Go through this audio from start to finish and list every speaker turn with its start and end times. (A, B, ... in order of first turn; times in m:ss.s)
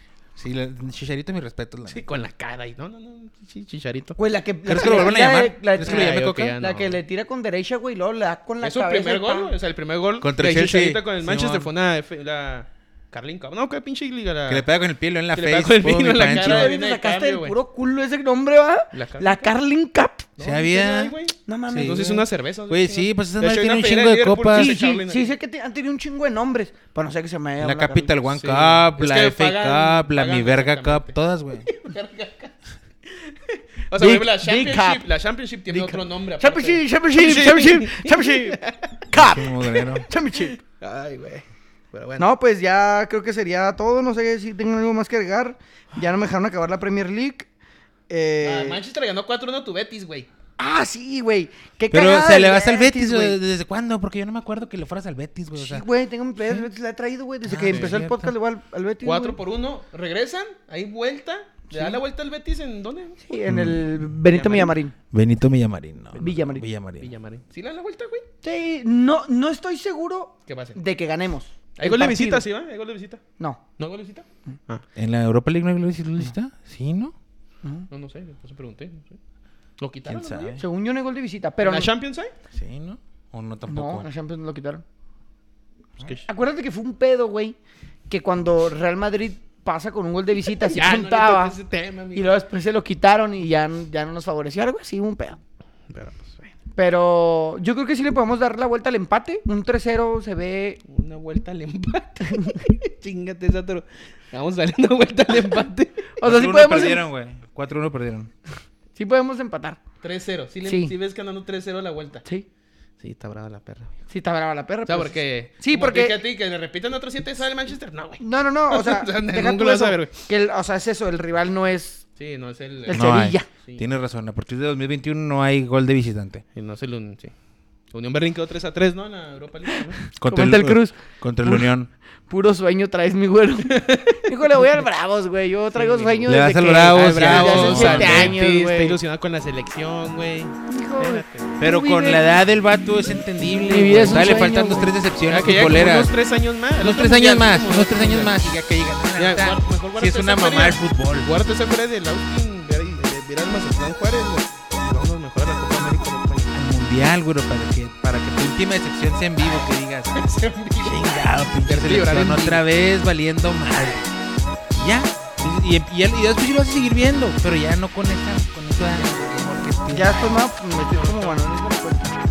0:00.4-0:02.0 A
0:01.9-0:04.2 B
0:04.2-0:09.5 C
0:04.7-0:06.6 A
0:04.8-0:05.2 B
0:05.8-0:07.0 B
0:08.6-0:14.7 B
0:10.2-0:11.7 A
0:14.5-0:16.7 A
0:15.3-0:17.6 B
0:16.3-0:20.3 C
0:18.9-0:19.5 B
0:20.4-0:25.3 B
0:20.4-0:21.2 A
0:21.5-0:22.3 C
0:21.7-0:22.0 A
0:22.7-0:24.8 A
0:24.6-0:28.1 C
0:27.6-0:31.7 A
0:28.3-0:32.5 B
0:33.1-0:39.0 B
0:34.0-0:35.0 C
0:35.7-0:40.6 C
0:39.1-0:40.1 A
0:39.8-0:42.3 B
0:42.2-0:47.5 C
0:48.1-0:48.8 C
0:48.4-0:50.3 B
0:50.6-0:53.4 C
0:51.9-0:55.9 A
0:55.6-0:59.4 C
0:57.5-0:58.3 A
0:57.7-0:58.0 B
0:59.0-1:03.2 B
1:01.7-1:02.0 C
1:03.2-1:05.0 C
1:03.5-1:04.1 A
1:04.3-1:04.8 B
1:05.1-1:07.1 A
1:06.2-1:06.6 C
1:07.0-1:08.3 B
1:08.4-1:12.5 C
1:10.5-1:10.8 B
1:11.8-1:13.2 B
1:13.8-1:14.8 B
1:15.0-1:17.1 A
1:17.6-1:17.9 C
1:17.9-1:19.2 B
1:19.8-1:20.6 B
1:20.1-1:20.6 A
1:20.6-1:21.9 C
1:21.6-1:22.3 B
1:22.5-1:24.1 A
1:23.7-1:24.8 C
1:26.0-1:26.3 B
1:26.3-1:27.6 C
1:28.1-1:31.6 C
1:30.5-1:32.4 B
1:32.1-1:35.4 C
1:35.9-1:36.5 B
1:36.8-1:40.8 C
1:40.9-1:46.1 B
1:42.3-1:42.6 C
1:46.2-1:47.0 C
1:46.2-1:48.3 A
1:49.0-1:49.8 C
1:50.0-1:52.2 B
1:50.6-1:51.0 C
1:53.0-1:53.9 B
1:54.1-1:56.2 C
1:54.9-2:00.2 B
1:58.2-2:02.0 C
2:02.2-2:03.8 B
2:02.9-2:03.5 C
2:02.9-2:06.4 A
2:06.6-2:07.3 B
2:07.9-2:10.0 B
2:10.2-2:11.9 A
2:10.2-2:11.7 C
2:12.3-2:19.0 C
2:13.7-2:14.2 B
2:15.7-2:21.5 B
2:16.3-2:18.4 A
2:20.7-2:22.2 C
2:21.6-2:26.1 A
2:23.7-2:24.9 C
2:25.3-2:28.4 B
2:26.8-2:31.3 A
2:29.2-2:36.5 B
2:36.5-2:40.2 A
2:40.1-2:42.6 B
2:40.8-2:44.1 A
2:43.7-2:44.0 B
2:44.8-2:50.3 A
2:48.9-2:49.5 B
2:49.9-2:52.2 C
2:50.8-2:51.4 B